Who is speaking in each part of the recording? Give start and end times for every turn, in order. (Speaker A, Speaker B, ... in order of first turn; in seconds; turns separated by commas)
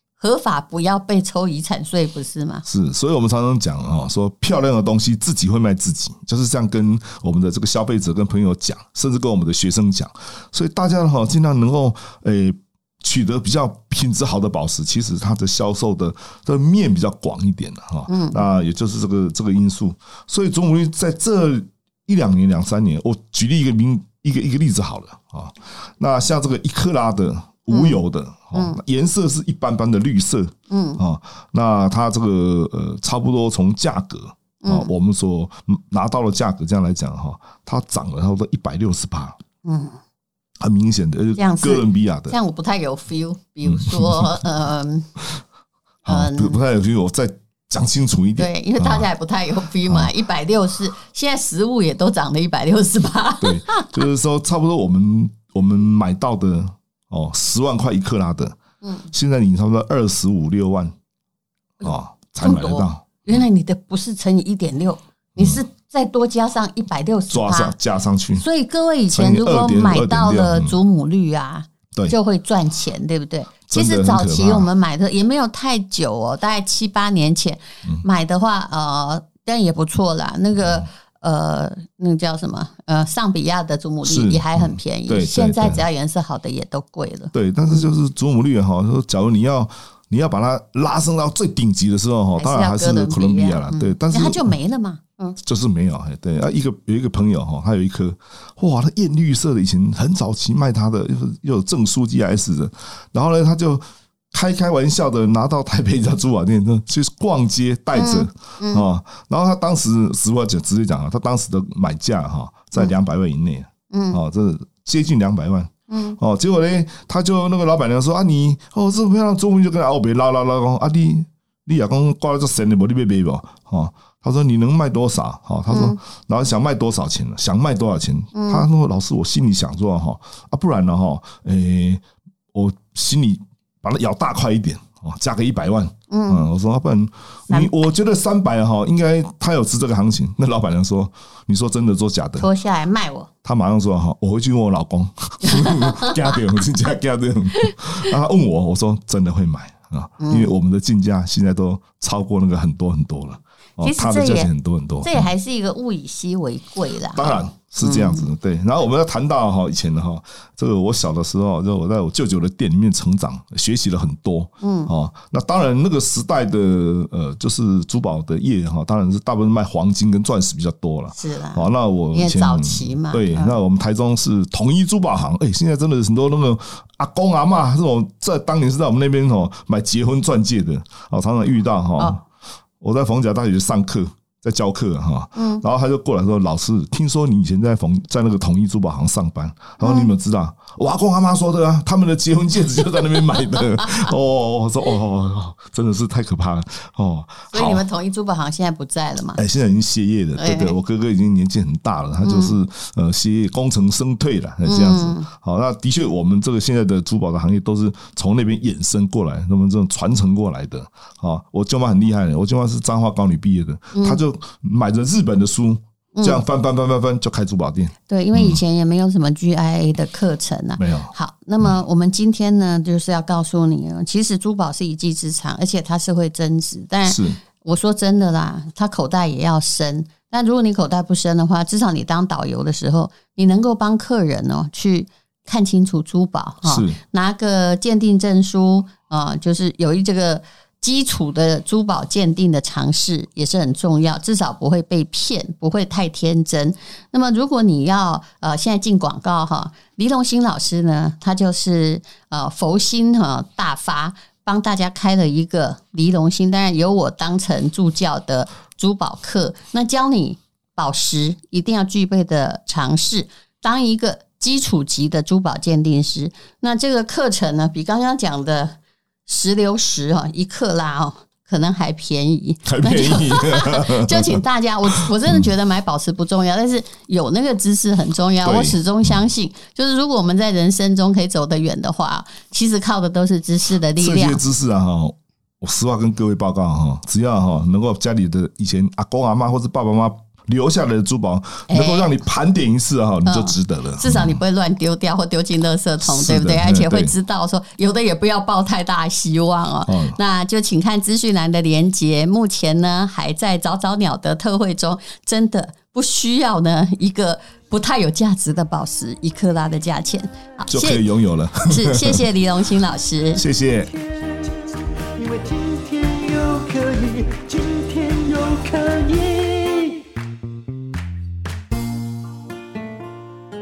Speaker A: 0.2-2.6, Speaker B: 2.6-39.4, Speaker A: 18.1-18.4, Speaker A: 27.7-28.0, Speaker A: 28.5-28.8, Speaker A: 30.7-31.0, Speaker A: 34.6-34.9, Speaker A: 39.6-40.0, Speaker B: 40.6-42.4, Speaker A: 41.4-45.1, Speaker B: 43.6-44.4, Speaker B: 46.0-49.1, Speaker A: 46.1-46.6, Speaker A: 48.4-54.0, Speaker B: 49.9-50.1, Speaker B: 53.4-58.6, Speaker A: 58.8-59.1, Speaker B: 59.1-60.9, Speaker A: 61.8-67.7, Speaker B: 61.8-63.4, Speaker B: 67.3-68.4, Speaker A: 68.3-87.9, Speaker B: 69.1-70.8, Speaker B: 73.7-74.7, Speaker B: 80.6-80.8, Speaker B: 84.0-85.8, Speaker B: 87.3-94.5, Speaker A: 92.4-95.4, Speaker B: 95.4-142.5, Speaker A: 107.9-108.8, Speaker A: 113.9-114.2, Speaker A: 115.9-116.2, Speaker A: 125.7-126.0, Speaker A: 128.3-128.7, Speaker A: 136.1-136.4, Speaker A: 142.4-143.3, Speaker B: 143.4-155.3, Speaker A: 145.4-146.4, Speaker A: 150.2-150.5, Speaker A: 153.8-154.5, Speaker A: 155.0-158.3, Speaker B: 157.1-182.2, Speaker A: 164.6-164.9, Speaker A: 171.1-173.6, Speaker B: 182.8-197.8, Speaker A: 185.3-185.6, Speaker A: 189.8-190.1, Speaker A: 197.5-199.4, Speaker B: 199.4-218.6, Speaker A: 200.4-200.8, Speaker A: 202.2-202.6, Speaker A: 204.6-205.3, Speaker A: 213.9-214.2, Speaker A: 216.2-216.4, Speaker A: 218.1-284.4, Speaker B: 220.8-221.1, Speaker B: 227.1-227.4, Speaker B: 236.6-237.0, Speaker B: 272.6-275.5, Speaker B: 278.4-278.8, Speaker B: 284.0-294.4, Speaker A: 291.7-292.1, Speaker A: 293.2-311.0, Speaker B: 296.0-297.1, Speaker B: 299.9-300.2, Speaker B: 310.7-312.2, Speaker A: 311.6-313.4, Speaker B: 313.3-313.9, Speaker C: 313.8-320.1